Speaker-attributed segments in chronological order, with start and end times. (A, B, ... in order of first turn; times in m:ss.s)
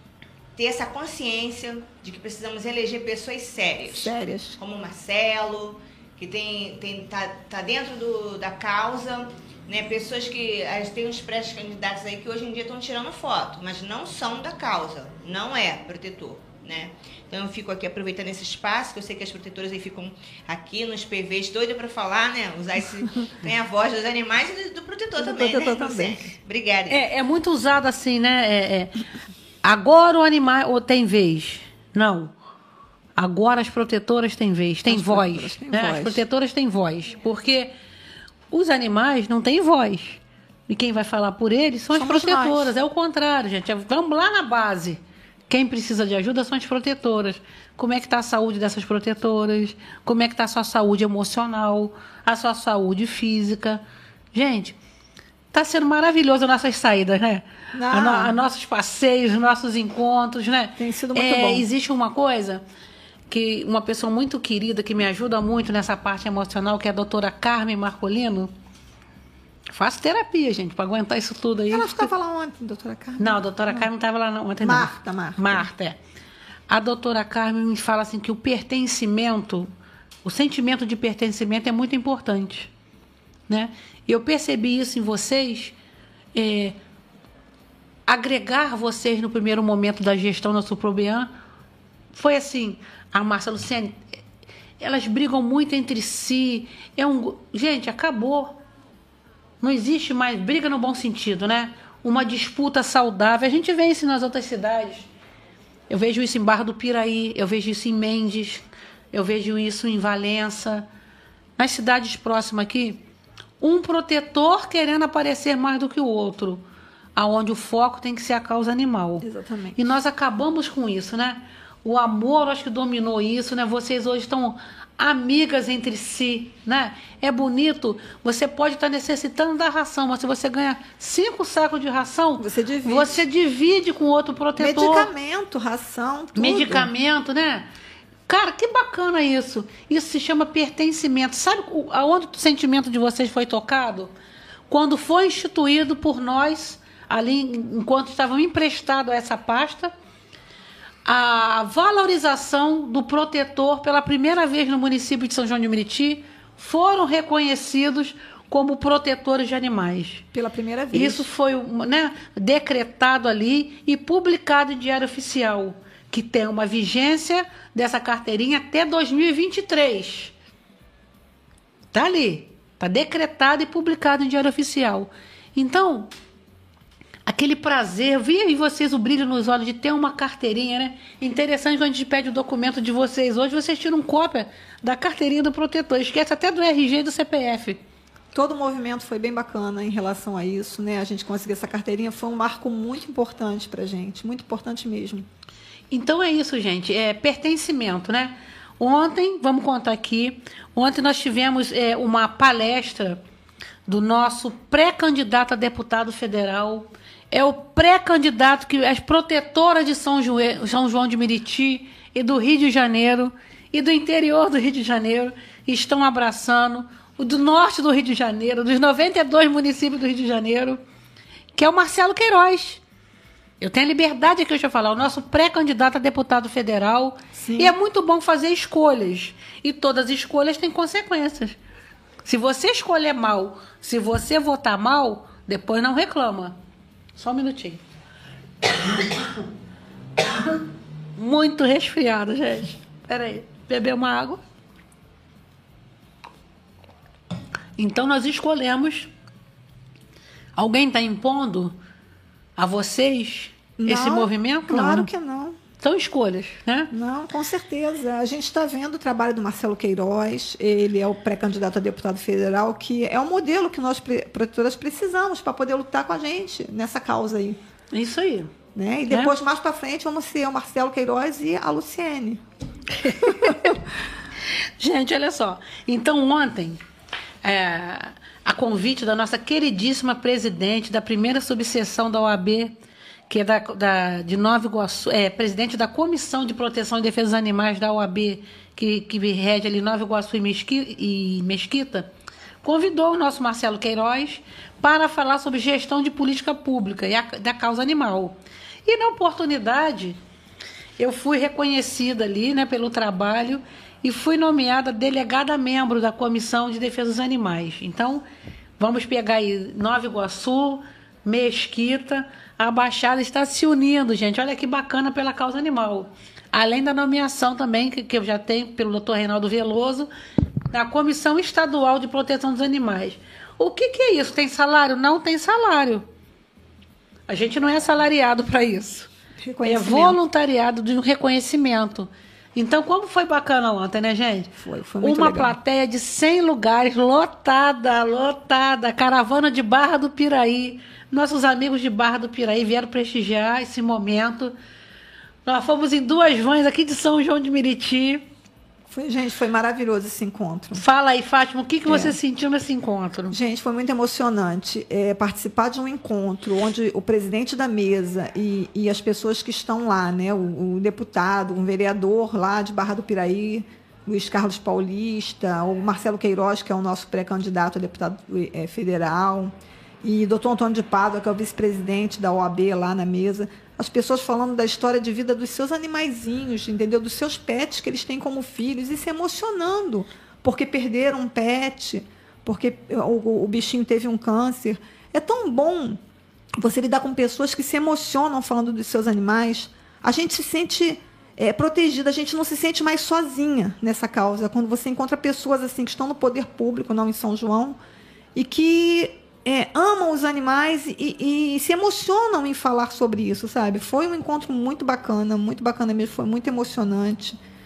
0:00.6-0:27.0 A
0:03.9-0:04.6 B
0:25.2-0:26.3 B
0:26.9-0:29.0 C
0:29.6-0:32.3 C
0:33.2-0:37.7 C
0:34.9-0:36.2 B
0:38.5-0:53.8 C
0:41.9-0:42.7 B
0:54.3-0:54.8 C
0:55.5-1:02.6 C
0:57.7-0:58.4 B
1:00.8-1:01.7 B
1:03.3-1:08.5 C
1:09.7-1:12.1 C
1:11.7-1:13.9 B
1:13.2-1:16.0 C
1:14.6-1:15.7 B
1:16.7-1:19.7 C
1:20.2-1:22.7 C
1:23.5-1:25.7 C
1:26.3-1:26.8 C
1:28.1-1:31.3 C
1:32.1-1:34.0 C
1:34.8-1:38.6 C
1:39.6-1:45.1 C
1:45.9-1:50.9 C
1:51.6-1:53.0 C
1:53.6-1:56.6 C
1:57.2-2:15.1 C
1:59.2-1:59.8 B
2:12.4-2:13.2 B
2:14.6-2:16.9 B
2:16.3-2:17.7 C
2:18.3-2:24.1 C
2:24.7-2:29.9 C
2:31.0-2:40.2 C
2:40.3-2:41.3 B
2:40.9-2:50.3 C
2:51.9-2:56.1 C
2:57.2-3:07.8 C
3:08.3-3:15.3 B
3:15.9-3:23.2 C
3:23.8-3:40.8 C
3:41.5-3:42.8 C
3:43.6-3:51.6 C
3:47.3-3:47.7 B
3:52.2-3:56.6 C
3:57.2-3:57.8 C
3:58.6-3:59.4 C
4:00.2-4:00.6 C
4:01.2-4:04.4 C
4:07.8-4:09.1 C
4:10.6-4:11.8 C
4:12.6-4:15.1 C
4:13.8-4:15.6 B
4:15.8-4:16.9 C
4:16.9-4:27.6 B
4:27.9-4:28.5 C
4:28.7-4:32.4 B
4:33.0-4:33.8 C
4:33.2-4:33.8 B
4:34.8-4:36.8 C
4:37.4-4:42.7 C
4:43.3-4:52.1 C
4:52.6-5:00.2 C
5:01.0-5:08.2 C
5:08.8-5:20.1 C
5:20.7-5:26.0 C
5:27.3-5:29.1 C
5:29.4-5:30.2 B
5:29.6-5:44.5 C
5:34.6-5:35.6 B
5:45.4-5:48.2 C
5:48.9-5:50.8 B
5:50.7-5:53.3 C
5:51.9-5:52.2 B
5:53.3-6:26.0 B
6:26.6-6:37.8 B
6:38.3-6:47.4 B